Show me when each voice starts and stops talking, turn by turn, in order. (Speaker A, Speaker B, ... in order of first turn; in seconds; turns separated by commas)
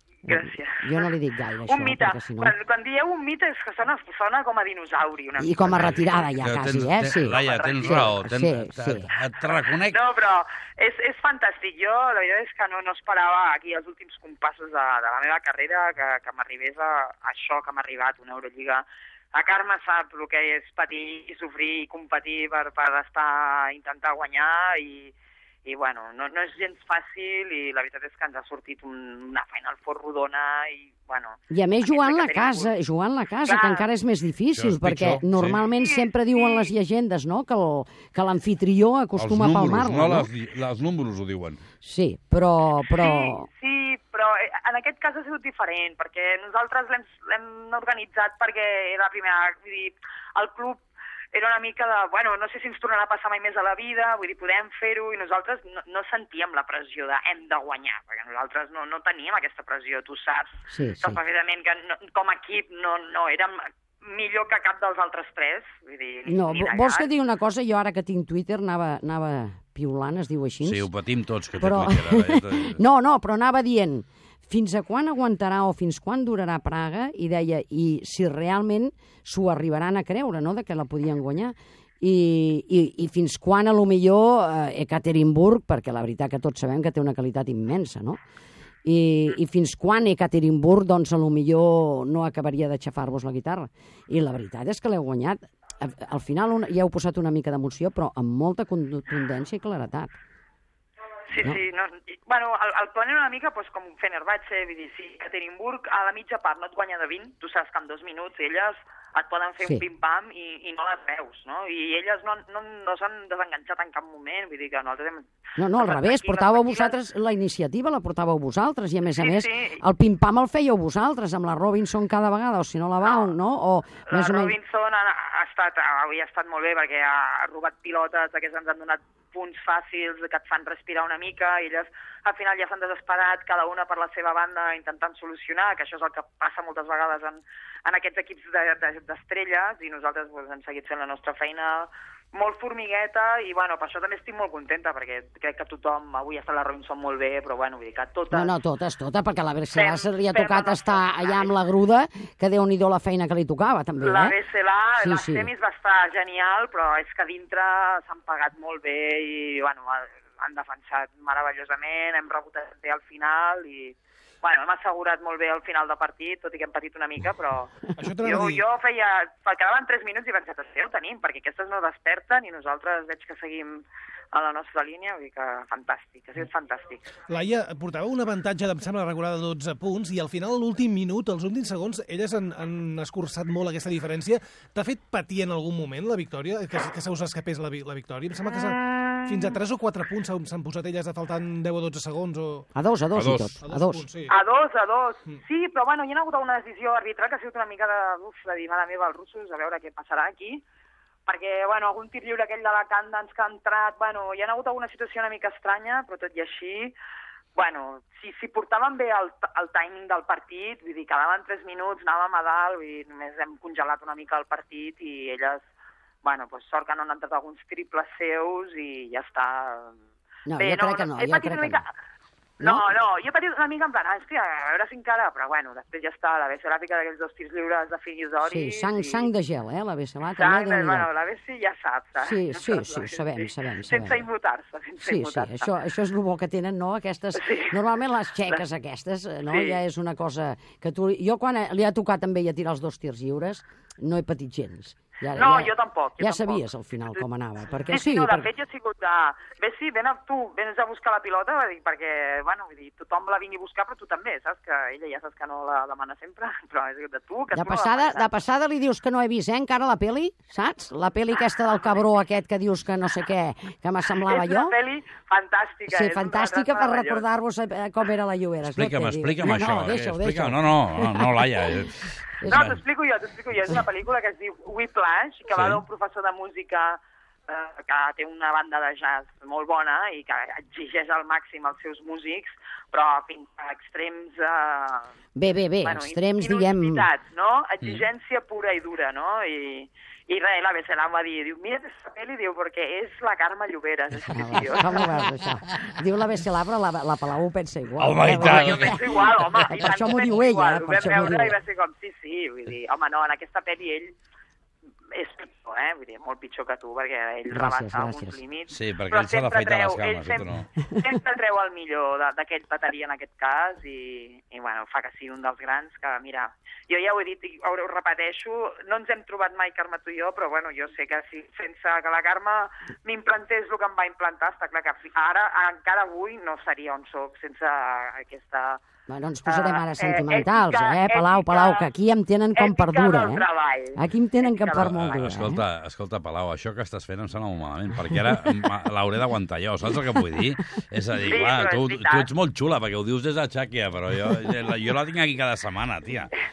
Speaker A: 0.3-1.1, Speaker B: 0.3-2.6, Speaker A: 1.7-6.2, Speaker B: 5.4-9.1, Speaker C: 5.7-10.0, Speaker A: 7.3-8.2, Speaker A: 9.4-25.1, Speaker A: 25.6-32.7, Speaker B: 31.5-40.3, Speaker A: 33.5-33.9, Speaker C: 34.5-35.6, Speaker A: 35.6-36.7, Speaker C: 39.2-41.6, Speaker B: 41.8-43.5, Speaker A: 42.9-50.8, Speaker A: 51.3-67.1, Speaker B: 60.7-61.2, Speaker B: 66.3-70.9, Speaker C: 70.6-72.8, Speaker B: 71.6-88.2, Speaker B: 88.8-100.2, Speaker A: 101.3-116.9, Speaker B: 115.6-124.6, Speaker A: 119.2-119.8, Speaker A: 123.0-123.3, Speaker A: 124.1-148.5, Speaker B: 148.3-154.4, Speaker A: 149.7-151.5, Speaker A: 154.0-177.1, Speaker B: 155.0-155.5, Speaker D: 168.0-168.6, Speaker D: 177.3-192.7, Speaker B: 192.8-194.0, Speaker C: 193.1-193.6, Speaker D: 193.6-194.3, Speaker A: 194.3-200.6, Speaker A: 201.3-207.0, Speaker A: 207.6-215.7, Speaker A: 216.2-220.0, Speaker B: 220.5-221.8, Speaker A: 220.6-221.9, Speaker A: 222.6-229.3, Speaker B: 222.6-222.9, Speaker B: 228.4-231.1, Speaker A: 230.3-235.7, Speaker B: 232.2-234.2, Speaker B: 235.0-248.5, Speaker A: 237.3-237.8, Speaker A: 239.5-239.8, Speaker A: 245.3-247.2, Speaker A: 247.9-258.3, Speaker B: 257.5-264.8, Speaker A: 264.2-267.2, Speaker B: 265.9-271.8, Speaker C: 268.6-272.8, Speaker A: 272.5-285.1, Speaker C: 275.5-275.8, Speaker B: 285.4-287.1, Speaker A: 285.8-295.3, Speaker B: 294.3-301.6, Speaker C: 298.0-299.2, Speaker A: 298.2-304.1, Speaker A: 305.1-328.8, Speaker B: 307.5-308.4, Speaker C: 308.7-310.7, Speaker B: 329.1-335.6, Speaker A: 329.5-331.9, Speaker A: 332.6-335.2, Speaker C: 334.8-346.3, Speaker A: 341.2-342.3